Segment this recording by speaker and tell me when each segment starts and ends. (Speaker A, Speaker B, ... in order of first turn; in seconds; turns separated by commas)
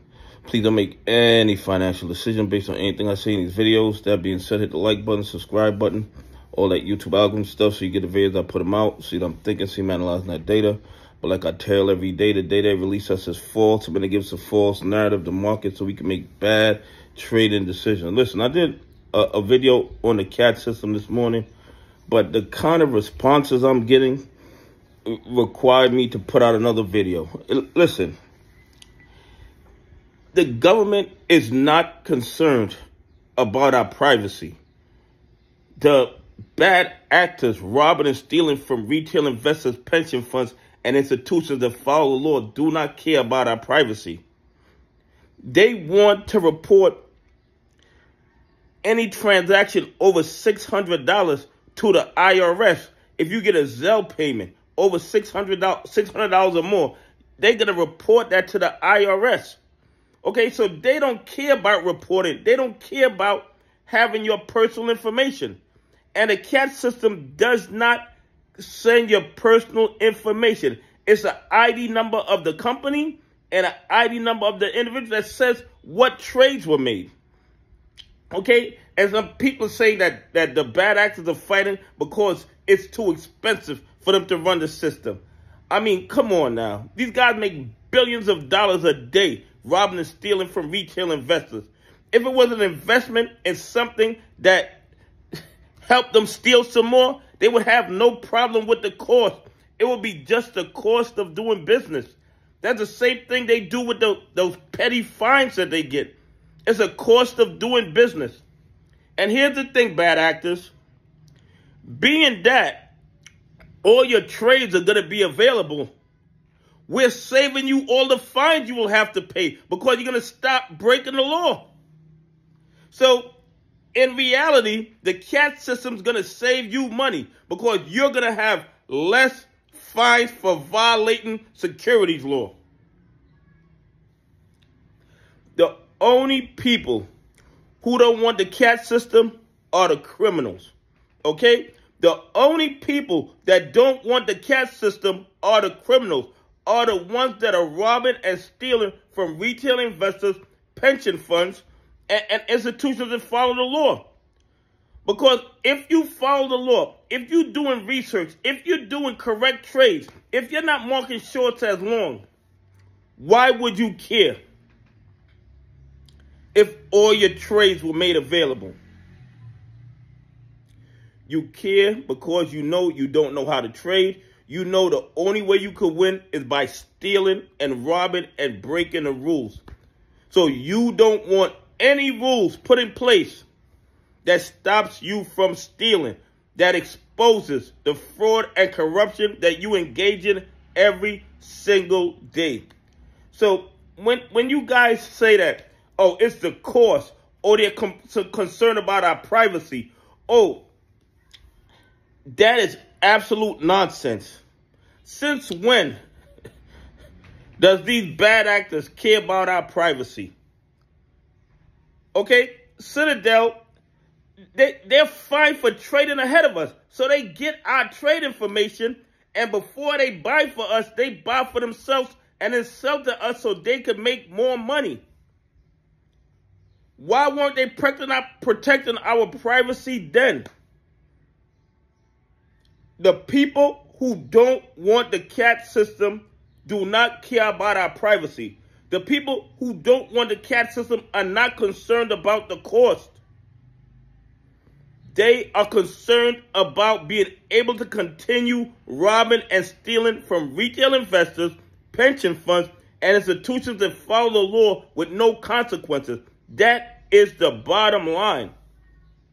Speaker A: 0.5-21.5, Speaker A: 22.1-24.3, Speaker A: 25.1-28.2, Speaker A: 30.3-32.8, Speaker A: 33.4-34.6, Speaker A: 35.8-44.2, Speaker A: 45.5-47.0, Speaker A: 48.8-59.6, Speaker A: 60.2-65.6, Speaker A: 66.2-68.1, Speaker A: 68.6-77.1, Speaker A: 78.3-94.8, Speaker A: 95.9-108.4, Speaker A: 109.2-110.7, Speaker A: 111.9-112.9, Speaker A: 113.8-115.9, Speaker A: 116.9-121.7, Speaker A: 122.9-123.3, Speaker A: 124.0-132.6, Speaker A: 135.6-137.1, Speaker A: 137.8-140.7, Speaker A: 141.2-154.1, Speaker A: 155.1-162.2, Speaker A: 163.2-164.4, Speaker A: 166.5-168.8, Speaker A: 171.3-179.6, Speaker A: 180.3-183.5, Speaker A: 184.2-192.7, Speaker A: 193.3-200.7, Speaker A: 202.3-204.4, Speaker A: 205.0-206.0, Speaker A: 207.6-210.3, Speaker A: 212.2-213.6, Speaker A: 214.6-225.0, Speaker A: 227.0-230.5, Speaker A: 233.0-243.2, Speaker A: 245.1-258.5